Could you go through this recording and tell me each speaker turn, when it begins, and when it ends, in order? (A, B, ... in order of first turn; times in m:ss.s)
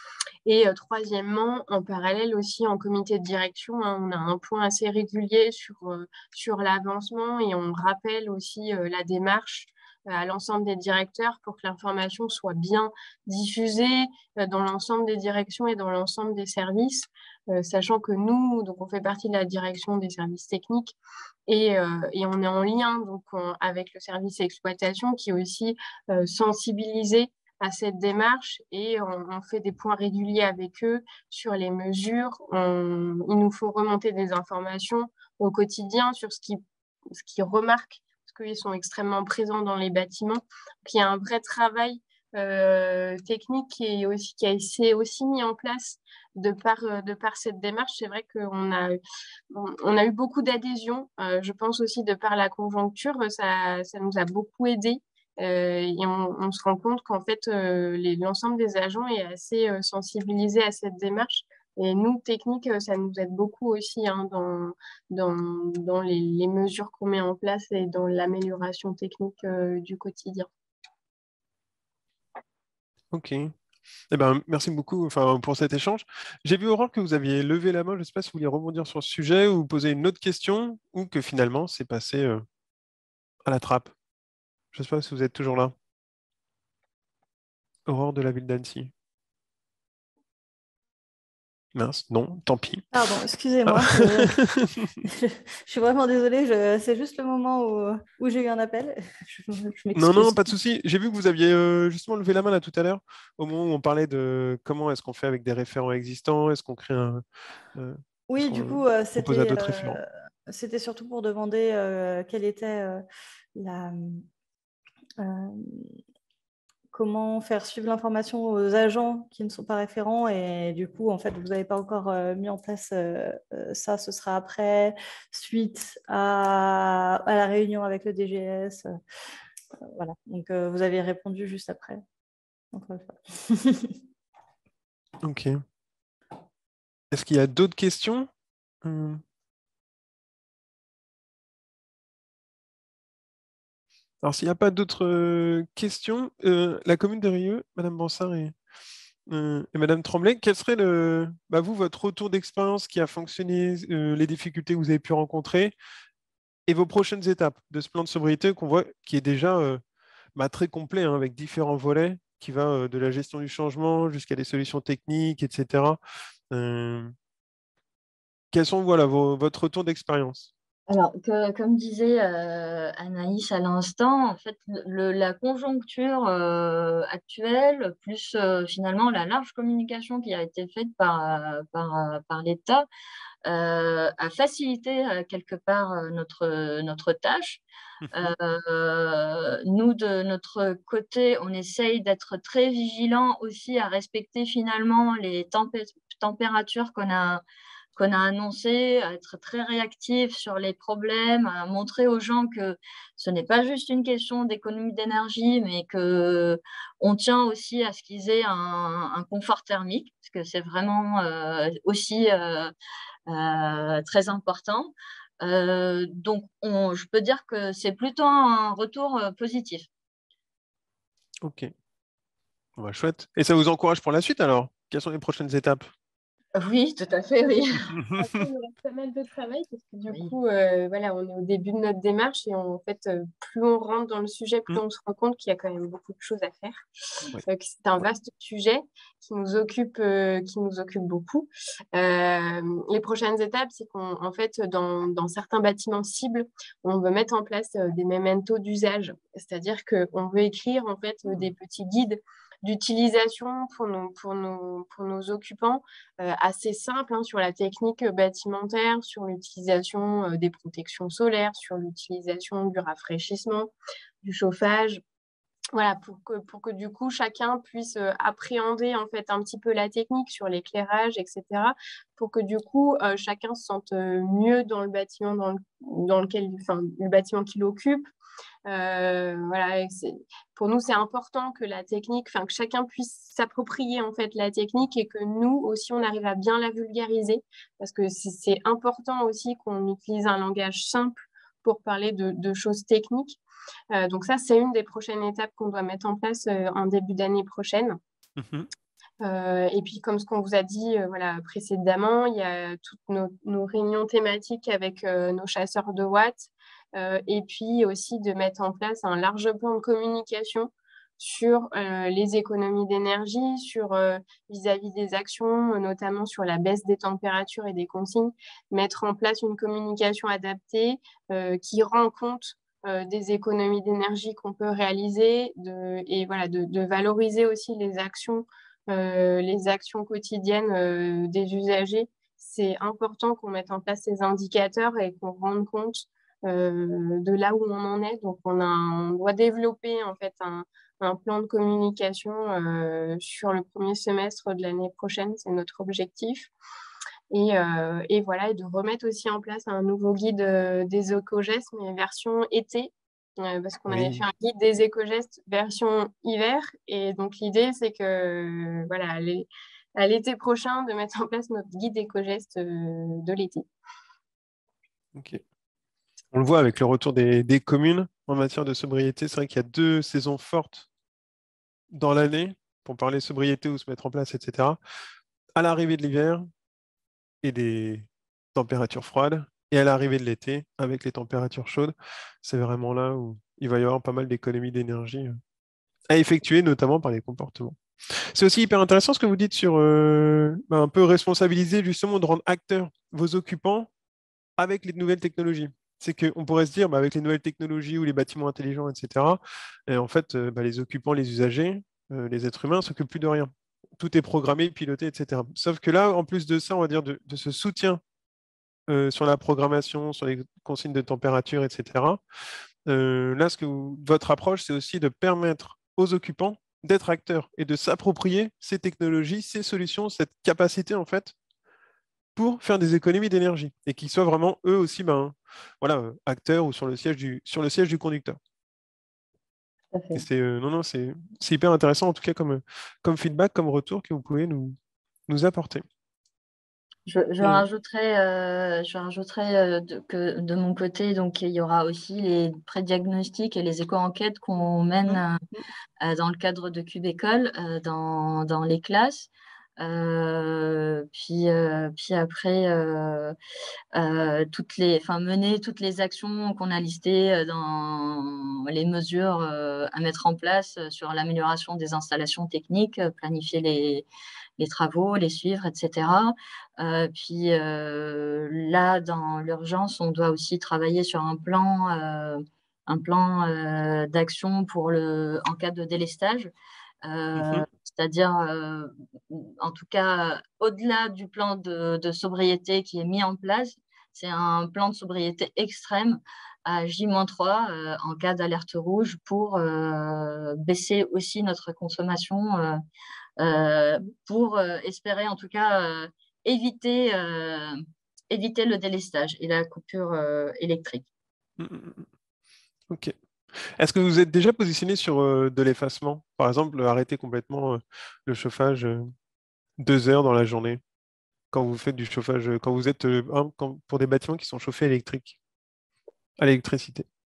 0:00.4-0:49.0 A
0:49.5-1:10.5 A
1:13.1-1:13.5 B
1:14.1-1:22.4 B
1:23.5-1:23.9 B
1:24.7-1:25.7 B
1:27.9-1:28.9 B
1:31.8-1:32.9 B
1:32.9-1:34.4 C
1:33.7-1:35.0 B
1:35.0-1:40.6 C
1:40.0-1:47.2 B
1:47.8-1:50.0 B
1:48.3-1:53.0 C
1:53.6-1:54.2 C
1:55.2-1:56.0 C
1:56.9-2:08.9 C
2:09.8-2:12.0 C
2:12.7-2:14.0 C
2:15.2-2:15.6 B
2:17.1-2:18.3 B
2:18.8-2:19.2 B
2:24.2-2:28.5 B
2:29.3-2:35.7 B
2:36.7-2:39.8 B
2:40.4-2:46.0 B
2:46.5-2:47.1 B
2:48.5-2:50.5 B
2:50.9-3:02.9 D
3:03.4-3:07.6 D
3:08.0-3:08.3 B
3:08.1-3:17.4 D
3:18.0-3:32.7 D
3:33.3-3:39.9 D
3:41.4-3:41.7 B
3:42.8-3:45.9 B
3:46.6-3:48.0 D
3:47.4-3:56.9 A
3:57.4-4:25.0 A
4:25.7-4:38.1 A
4:38.7-4:53.4 A
4:53.9-4:58.0 A
4:58.4-4:58.7 B
4:59.2-5:46.5 A
5:47.3-6:03.7 A
5:53.9-5:54.3 B
6:05.2-6:05.4 B
6:06.3-6:10.9 B
6:11.9-6:14.8 B
6:15.6-6:16.5 B
6:17.4-6:25.4 B
6:26.1-6:27.8 B
6:28.4-6:33.9 B
6:34.6-6:48.0 B
6:48.9-6:52.2 B
6:52.9-7:01.3 B
7:02.4-7:08.4 B
7:09.9-7:10.2 D
7:10.1-7:14.8 B
7:15.3-7:15.8 B
7:17.1-7:25.4 D
7:25.1-7:25.6 B
7:26.0-7:33.4 D
7:33.9-7:44.0 D
7:44.6-7:56.5 D
7:57.0-8:12.8 D
7:57.4-7:57.6 B
8:13.4-8:17.8 D
8:18.3-8:21.0 D
8:21.6-8:22.1 B
8:23.8-8:29.1 B
8:29.8-8:30.8 B
8:31.5-8:35.4 B
8:36.4-8:37.1 B